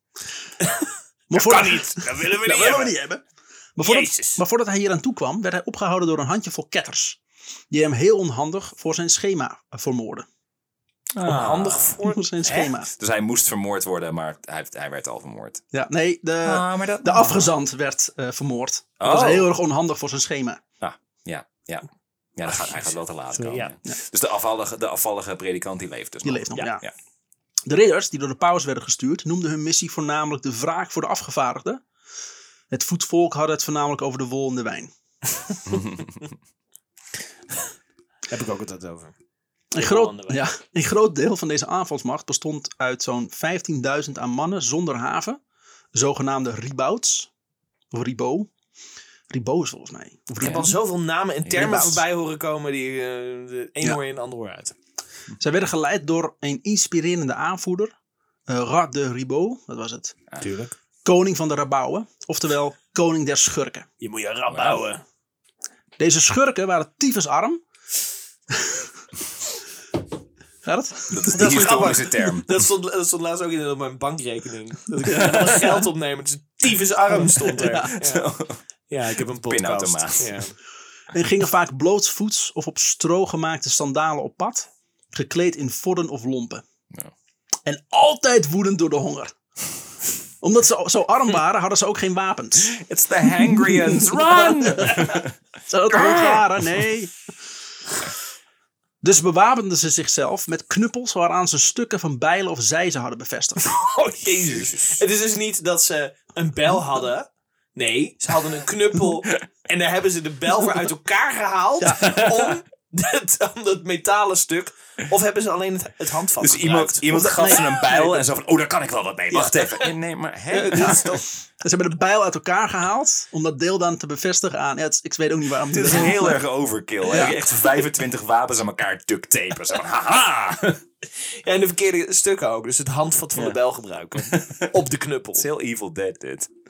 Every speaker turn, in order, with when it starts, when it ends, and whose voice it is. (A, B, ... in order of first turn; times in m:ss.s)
0:01.3-0:03.2 A
0:01.3-0:03.0 B
0:03.8-0:07.2 A
0:03.8-0:04.4 B
0:07.7-0:10.2 A
0:11.1-0:12.0 C
0:11.2-0:12.7 B
0:12.0-0:12.9 A
0:12.9-0:15.6 C
0:15.7-0:20.6 A
0:16.4-0:17.5 C
0:19.0-0:19.5 C
0:20.8-0:26.9 C
0:23.3-0:23.7 B
0:26.2-0:26.8 A
0:27.7-0:31.8 A
0:32.7-0:34.9 A
0:35.7-0:36.2 C
0:38.3-0:39.1 B
0:39.7-0:45.4 A
0:39.8-0:40.4 B
0:45.9-0:47.3 A
0:47.9-0:48.5 A
0:49.3-0:50.8 A
0:50.4-0:54.7 B
0:50.4-0:50.7 C
0:51.4-0:51.9 C
0:51.5-0:52.0 A
0:55.4-0:57.9 A
0:58.5-1:00.2 A
1:00.4-1:00.7 B
1:01.0-1:03.9 A
1:04.0-1:05.0 B
1:04.5-1:04.8 C
1:06.0-1:07.6 A
1:08.6-1:08.8 A
1:10.6-1:11.6 A
1:11.1-1:12.5 C
1:11.3-1:18.3 B
1:15.1-1:15.8 A
1:17.1-1:17.9 A
1:17.8-1:18.6 C
1:18.9-1:20.5 B
1:19.4-1:20.4 C
1:21.1-1:26.6 A
1:27.6-1:29.4 A
1:30.4-1:32.7 A
1:32.6-1:35.4 C
1:33.4-1:35.1 A
1:35.7-1:37.1 A
1:35.9-1:36.8 C
1:39.0-1:43.7 A
1:43.6-1:58.2 B
1:44.4-1:45.0 C
1:51.8-1:52.2 A
1:52.0-1:52.6 C
1:56.4-2:01.3 C
1:57.3-1:57.6 A
1:59.3-1:59.9 B
2:00.5-2:01.2 B
2:00.7-2:01.0 A
2:01.6-2:06.4 A
2:05.7-2:10.8 C
2:07.1-2:07.4 A
2:11.2-2:15.5 B
2:14.2-2:14.7 C
2:15.3-2:16.5 C